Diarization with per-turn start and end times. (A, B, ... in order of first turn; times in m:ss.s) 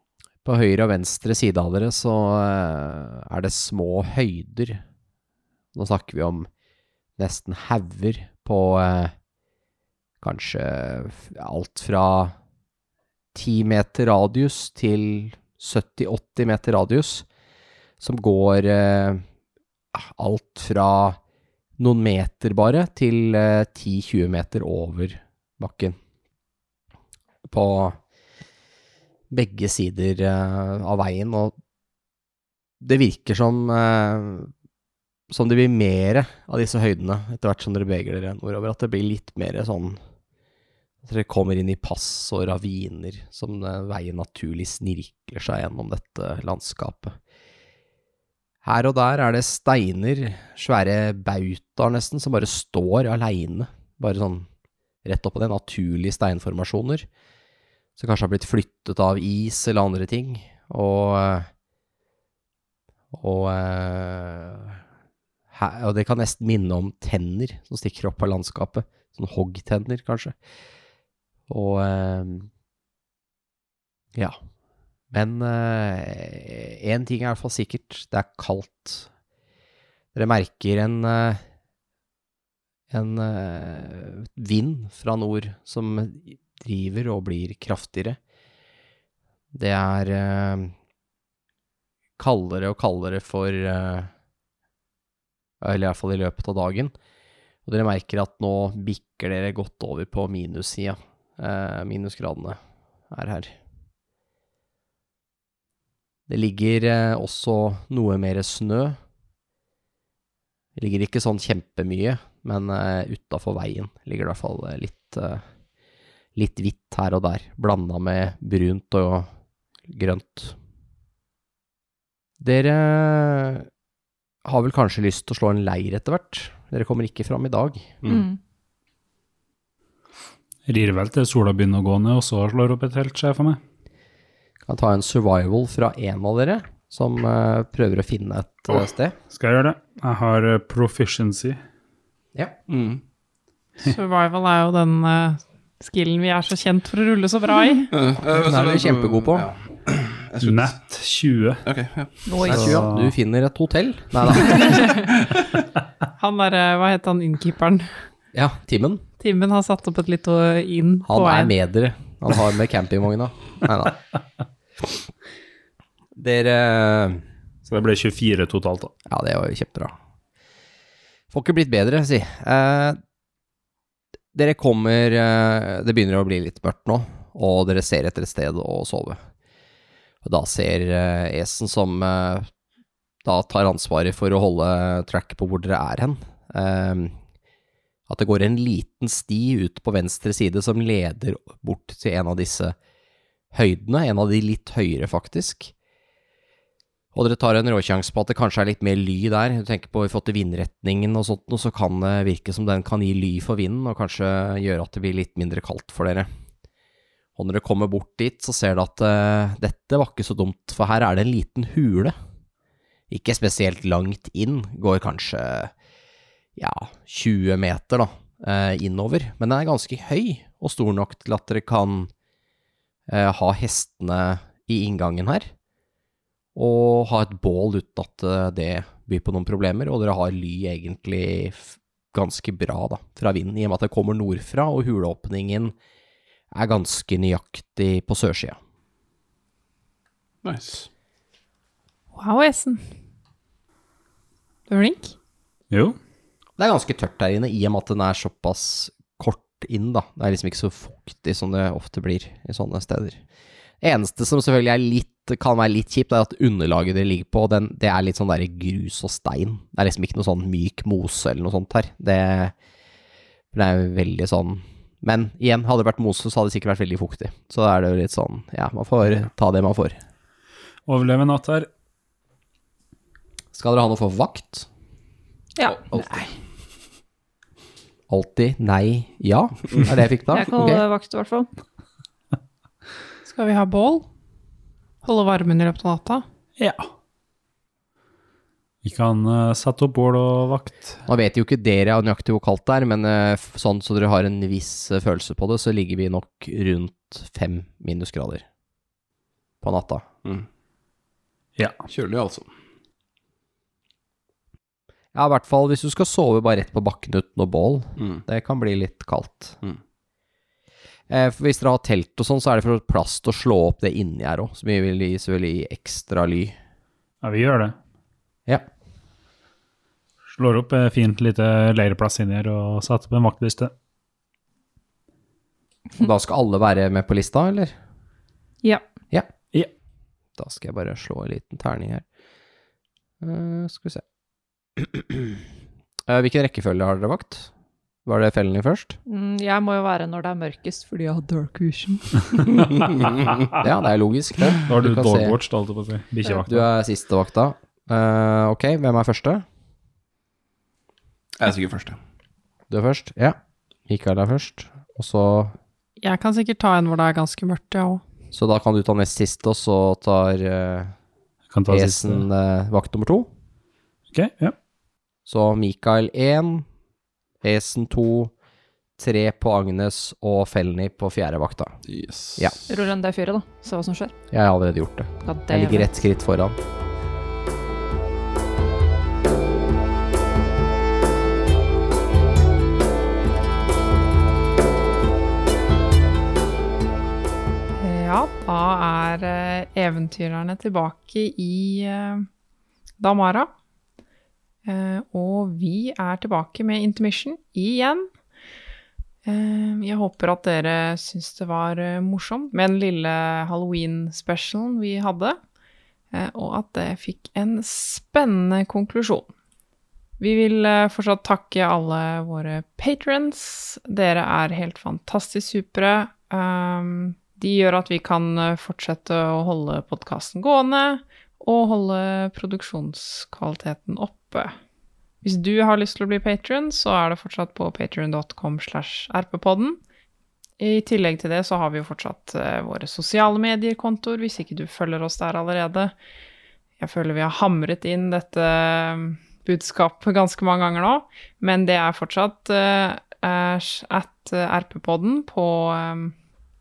0:00.4-0:04.8 A
0:05.8-0:06.5 A
0:07.2-0:09.1 A
0:10.2-0:12.4 A
0:13.3-0:17.3 A
0:18.0-0:19.2 A
0:19.9-0:21.2 A
0:21.8-0:26.0 A
0:27.4-0:28.0 A
0:29.3-0:31.5 A
0:32.8-0:34.5 A
0:35.3-0:40.0 A
0:41.0-0:47.2 A
0:48.6-0:54.5 A
0:55.0-0:57.1 A
0:58.0-1:01.5 A
1:03.1-1:04.8 A
1:05.5-1:10.4 A
1:11.5-1:12.5 A
1:15.1-1:19.1 A
1:20.1-1:21.4 A
1:22.9-1:28.2 A
1:29.5-1:30.7 A
1:32.2-1:34.1 A
1:35.6-1:36.9 A
1:37.7-1:42.6 A
1:43.1-1:43.5 A
1:46.3-1:49.0 A
1:50.8-1:55.4 A
1:56.4-1:59.3 A
1:59.9-2:00.6 A
2:02.4-2:03.7 A
2:04.4-2:08.0 A
2:08.1-2:08.4 B
2:10.7-2:13.6 C
2:14.7-2:19.2 A
2:19.3-2:21.6 C
2:22.7-2:23.0 D
2:23.8-2:27.9 E
2:27.9-2:30.8 D
2:28.3-2:29.5 A
2:30.4-2:31.6 C
2:31.6-2:32.2 D
2:32.3-2:32.7 B
2:32.4-2:33.2 C
2:32.4-2:34.8 A
2:36.2-2:37.9 E
2:38.3-2:39.0 A
2:39.2-2:41.5 E
2:41.1-2:44.0 A
2:46.2-2:47.2 A
2:47.6-2:48.9 C
2:49.1-2:49.9 A
2:51.3-2:53.0 A
2:54.3-2:59.2 A
3:00.2-3:02.5 A
3:03.2-3:07.2 A
3:08.1-3:12.8 A
3:13.5-3:15.7 A
3:17.1-3:26.3 A
3:27.4-3:32.2 A
3:33.1-3:35.7 A
3:36.6-3:42.1 A
3:43.1-3:45.5 A
3:46.6-3:55.7 A
3:56.5-3:58.6 A
4:00.4-4:00.9 D
4:02.1-4:02.8 E
4:04.7-4:05.1 E
4:05.7-4:06.0 C
4:06.6-4:13.2 A
4:13.8-4:22.5 A
4:23.5-4:30.0 A
4:30.9-4:31.7 C
4:33.5-4:34.7 A
4:35.6-4:35.9 B
4:35.9-4:36.2 A
4:38.1-4:40.8 A
4:40.3-4:41.5 B
4:43.2-4:44.1 E
4:45.0-4:46.2 E
4:46.6-4:46.9 C
4:48.8-4:51.0 C
4:51.1-4:58.4 A
4:59.6-5:00.1 A
5:01.6-5:01.8 C
5:01.9-5:02.5 D
5:05.1-5:09.6 A
5:11.1-5:16.6 A
5:17.2-5:17.8 C
5:20.3-5:23.7 C
5:26.0-5:27.7 A
5:30.4-5:32.0 A
5:33.2-5:34.0 A
5:34.8-5:35.3 A
5:36.1-5:37.5 A
5:38.0-5:39.0 A
5:39.1-5:42.6 B
5:42.7-5:43.3 D
5:43.6-5:45.4 A
5:44.7-5:46.7 C
5:46.5-5:49.4 A
5:51.4-5:52.0 D
5:52.7-5:53.4 A
5:53.9-5:55.5 A
5:56.0-5:58.0 E
5:58.3-6:00.9 A
6:01.5-6:02.2 C
6:01.7-6:03.3 A
6:04.1-6:04.6 C
6:05.3-6:06.7 A
6:07.4-6:08.3 A
6:09.0-6:11.8 A
6:11.9-6:12.6 D
6:12.7-6:14.1 B
6:14.3-6:16.6 A
6:15.2-6:16.0 B
6:27.8-6:32.3 E
6:33.0-6:33.5 E
6:34.6-6:38.1 E
6:39.2-6:45.4 E
6:46.1-6:49.3 E
6:50.2-7:04.5 E
7:05.2-7:09.8 E
7:10.6-7:15.9 E
7:16.8-7:26.1 E